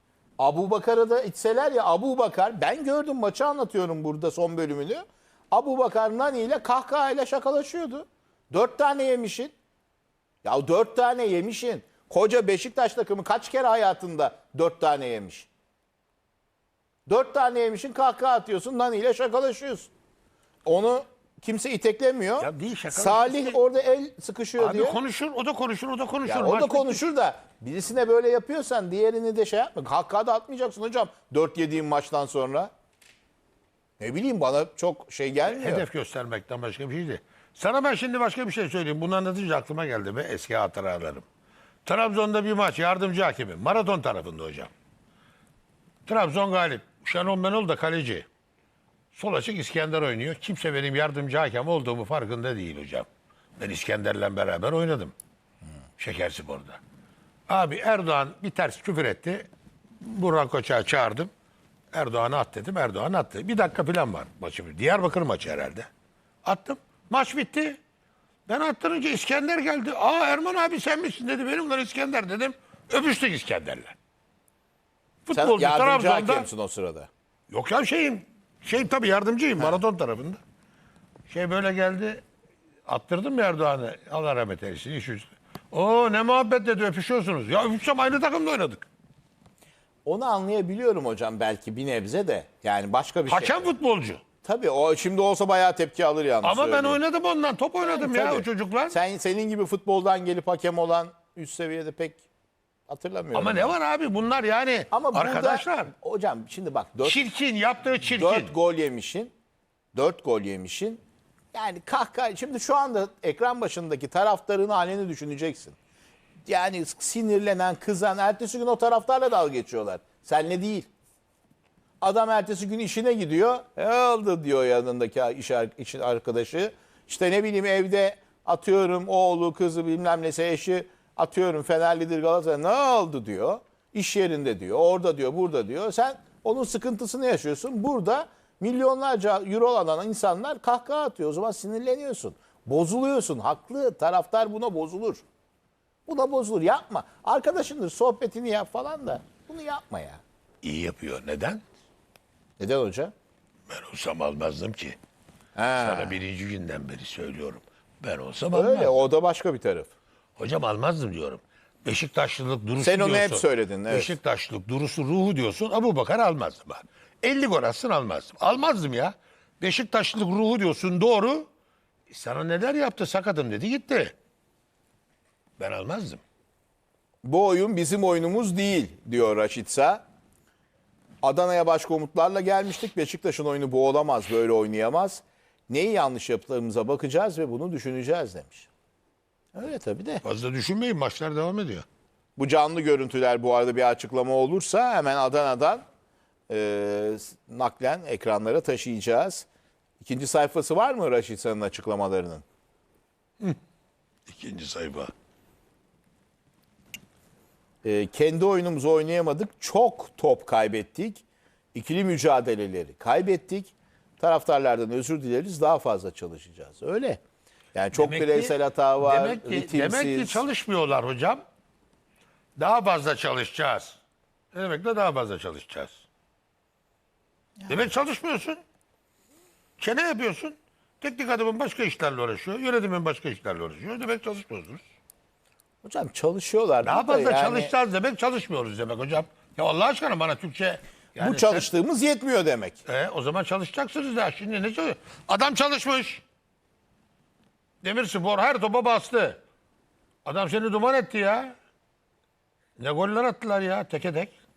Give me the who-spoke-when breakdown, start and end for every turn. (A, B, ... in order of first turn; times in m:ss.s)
0:00.4-0:09.5 A
0:10.4-0:15.5 A
0:17.1-0:19.9 A
0:20.6-0:25.0 A
0:22.4-0:23.6 B
0:24.6-0:27.0 B
0:26.2-0:32.7 A
0:34.0-0:35.9 A
0:35.4-0:41.2 B
0:41.8-0:44.7 B
0:46.0-0:48.3 B
0:49.1-0:53.1 B
0:53.6-0:55.1 B
0:56.0-0:56.8 B
0:57.5-0:59.5 B
1:00.0-1:01.3 B
1:01.9-1:05.9 B
1:06.4-1:07.8 B
1:08.5-1:14.0 B
1:15.2-1:16.5 B
1:15.3-1:17.1 A
1:17.5-1:20.4 B
1:21.3-1:22.2 B
1:22.8-1:28.8 B
1:30.0-1:33.7 A
1:33.3-1:34.2 B
1:34.4-1:37.0 A
1:36.4-1:39.0 B
1:37.8-1:42.2 A
1:42.9-1:43.7 A
1:43.3-1:45.9 B
1:44.9-1:47.2 A
1:47.0-1:48.5 B
1:48.0-1:49.3 A
1:49.9-1:51.0 A
1:51.5-1:55.8 A
1:56.5-2:00.9 A
2:02.0-2:25.2 A
2:26.1-2:30.2 A
2:30.6-2:31.6 B
2:32.6-2:33.1 A
2:33.7-2:35.0 B
2:35.6-2:36.2 A
2:35.8-2:38.9 B
2:38.5-2:39.9 A
2:40.4-2:51.5 B
2:42.8-2:44.1 A
2:52.1-2:54.1 B
2:55.6-2:56.2 B
2:57.2-3:00.0 A
3:01.2-3:08.7 A
3:09.5-3:10.2 A
3:10.2-3:11.8 B
3:12.4-3:15.8 A
3:16.5-3:19.4 A
3:20.0-3:22.4 A
3:24.3-3:25.1 B
3:27.8-3:31.2 A
3:31.7-3:37.2 A
3:37.7-3:40.4 A
3:37.9-3:41.4 B
3:42.6-3:44.0 B
3:44.5-3:46.0 B
3:47.6-3:47.9 A
3:47.7-3:48.6 B
3:49.8-3:54.8 B
3:55.8-3:57.7 A
3:56.8-4:01.7 B
4:01.2-4:02.8 A
4:02.8-4:06.2 B
4:07.8-4:09.4 B
4:10.2-4:11.5 B
4:12.8-4:14.3 B